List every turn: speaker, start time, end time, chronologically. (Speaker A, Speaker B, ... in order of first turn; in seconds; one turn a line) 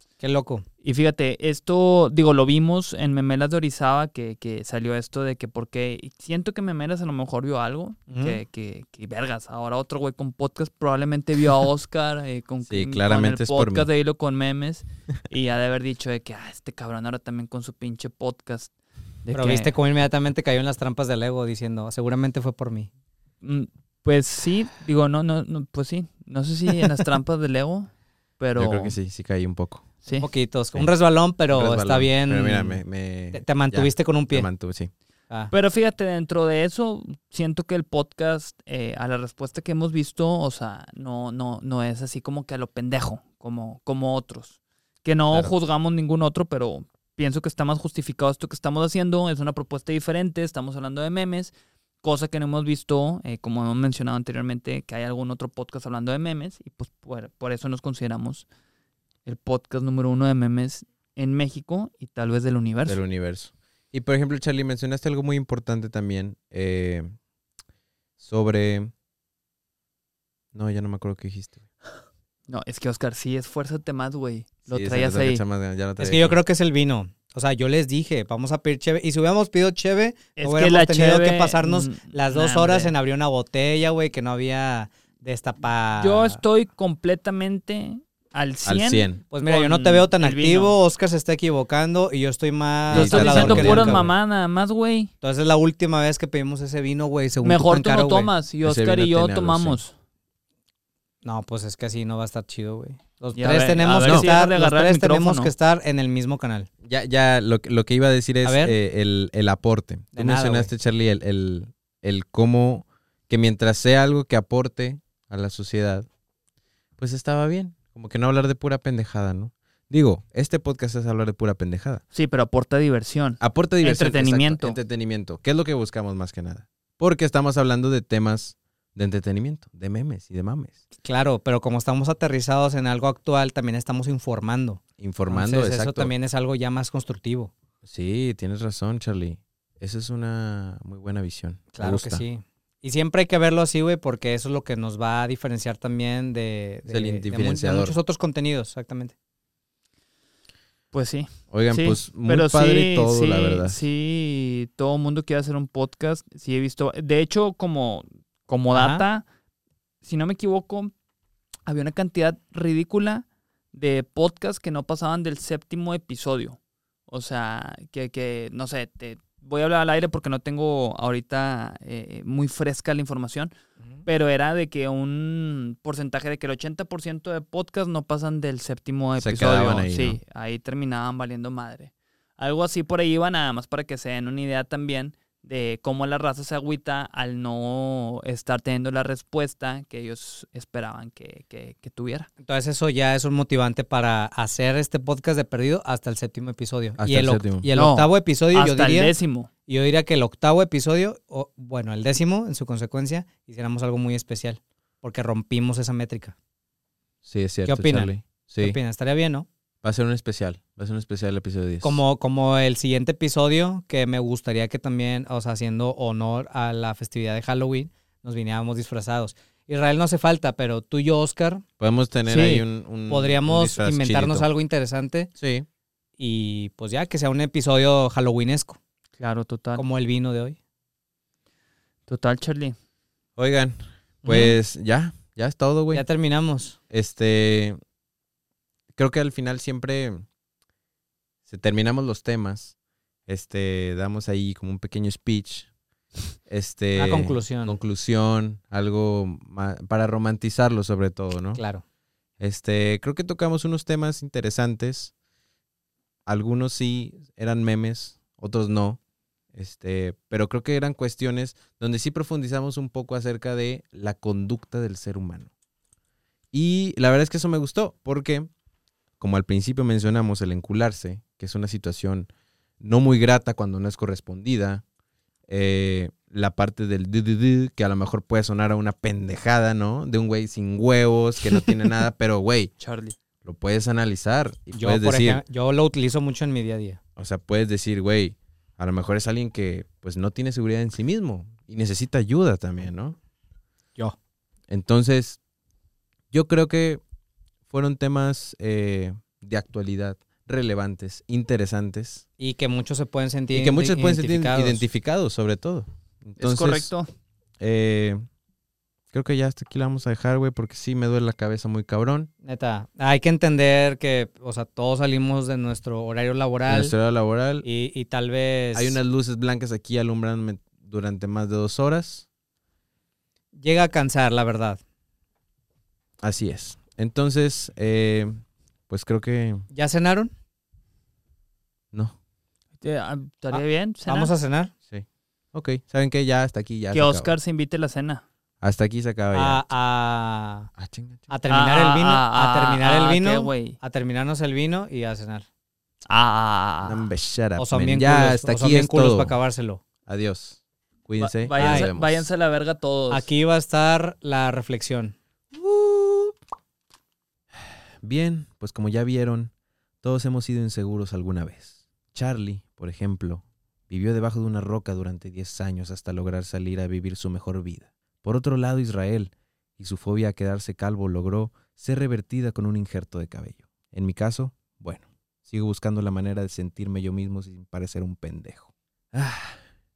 Speaker A: 0.2-0.6
Speaker B: 0.8-18.7
Speaker A: 8.1-8.4
Speaker C: 12.7-13.9
Speaker B: 19.2-19.7
Speaker A: 19.3-22.9
Speaker B: 23.4-29.0
Speaker C: 28.6-29.9
Speaker A: 30.2-32.8
Speaker C: 31.5-34.9
Speaker A: 33.3-34.5
Speaker B: 35.5-58.5
Speaker B: 59.3-63.0
Speaker C: 62.9-67.2
Speaker C: 68.2-68.9
Speaker C: 70.5-71.6
Speaker B: 72.5-75.4
Speaker C: 74.7-76.4
Speaker A: 76.0-86.4
Speaker B: 80.4-82.9
Speaker B: 86.0-90.8
Speaker C: 88.7-89.2
Speaker A: 89.3-94.1
Speaker C: 92.9-94.0
Speaker B: 92.9-95.1
Speaker A: 95.2-98.3
Speaker B: 97.4-99.9
Speaker C: 98.6-99.8
Speaker A: 101.2-106.7
Speaker B: 103.3-105.5
Speaker C: 104.0-104.3
Speaker C: 106.8-116.1
Speaker A: 108.4-108.7
Speaker A: 110.1-110.7
Speaker C: 117.0-122.0
Speaker B: 122.1-124.8
Speaker C: 123.4-130.8
Speaker A: 131.0-137.5
Speaker C: 135.0-136.1
Speaker C: 137.8-142.2
Speaker A: 141.7-149.1
Speaker C: 146.9-148.0
Speaker B: 150.9-159.2
Speaker C: 151.5-153.8
Speaker A: 158.7-159.0
Speaker B: 160.0-160.9
Speaker B: 161.7-173.5
Speaker B: 174.1-192.3
Speaker C: 179.2-180.2
Speaker A: 192.4-199.1
Speaker C: 197.0-197.7
Speaker B: 197.8-199.5
Speaker A: 199.7-206.3
Speaker C: 207.2-208.8
Speaker A: 207.7-209.5
Speaker C: 209.8-212.0
Speaker A: 211.8-221.6
Speaker C: 221.8-224.5
Speaker B: 222.3-222.6
Speaker A: 223.1-225.3
Speaker C: 225.4-225.7
Speaker A: 226.2-228.8
Speaker B: 229.2-229.8
Speaker A: 229.8-230.6
Speaker B: 232.1-232.8
Speaker C: 233.4-236.1
Speaker A: 234.2-234.6
Speaker A: 235.9-236.8
Speaker C: 236.9-237.8
Speaker C: 238.9-240.3
Speaker C: 241.5-242.7
Speaker C: 243.3-245.7
Speaker C: 246.5-251.6
Speaker A: 246.9-247.8
Speaker A: 251.6-251.8
Speaker C: 252.4-255.1
Speaker C: 256.3-259.0
Speaker C: 259.5-265.5
Speaker C: 266.5-268.5
Speaker C: 269.2-272.3
Speaker C: 272.8-274.8
Speaker C: 275.5-282.7
Speaker B: 282.8-283.2
Speaker C: 283.4-285.4
Speaker A: 284.7-287.0
Speaker C: 287.2-293.2
Speaker C: 294.7-295.4
Speaker C: 296.3-297.0
Speaker C: 297.7-302.2
Speaker A: 302.4-304.8
Speaker C: 303.5-306.9
Speaker B: 306.4-307.1
Speaker C: 307.6-308.2
Speaker C: 309.1-312.3
Speaker A: 312.4-316.9
Speaker C: 316.7-317.7
Speaker A: 317.6-319.0
Speaker C: 318.7-322.3
Speaker A: 323.6-324.8
Speaker C: 326.2-329.7
Speaker A: 329.7-330.3
Speaker B: 332.8-334.3
Speaker A: 333.5-334.7
Speaker C: 334.9-337.4
Speaker B: 336.9-338.2
Speaker C: 338.6-339.6
Speaker A: 339.3-340.7
Speaker C: 340.8-341.3
Speaker A: 341.3-345.5
Speaker B: 341.5-343.8
Speaker B: 346.1-347.1
Speaker C: 346.8-349.4
Speaker A: 347.6-349.8
Speaker C: 350.1-352.3
Speaker B: 351.2-353.3
Speaker A: 351.6-351.9
Speaker A: 353.1-355.1
Speaker C: 355.6-356.3
Speaker C: 358.0-379.6